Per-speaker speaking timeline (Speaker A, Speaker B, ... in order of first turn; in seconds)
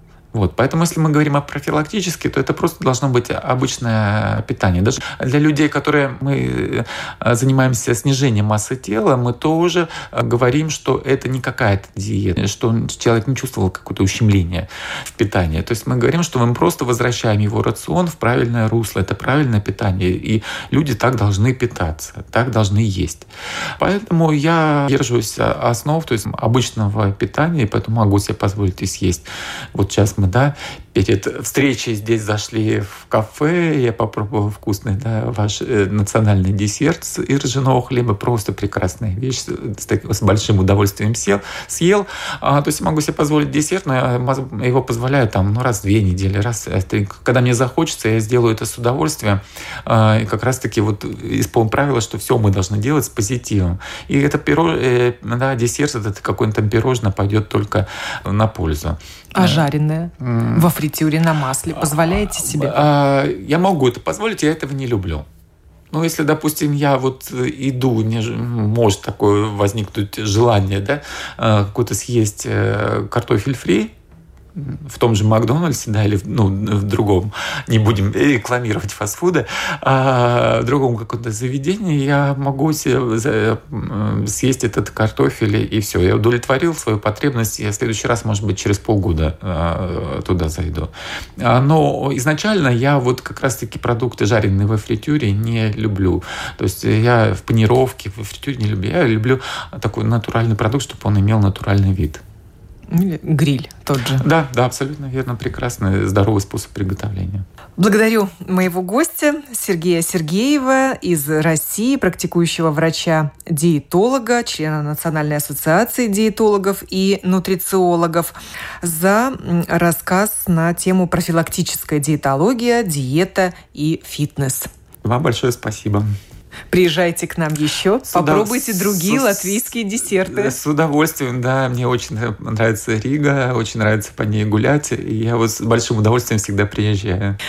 Speaker A: 0.3-59.7, 60.2-60.7, 62.4-65.3, 65.9-73.9, 74.5-102.2, 104.2-107.5, 125.0-126.1, 128.1-137.4
Speaker B: 59.4-62.8, 102.9-104.3, 107.8-124.7, 126.7-130.6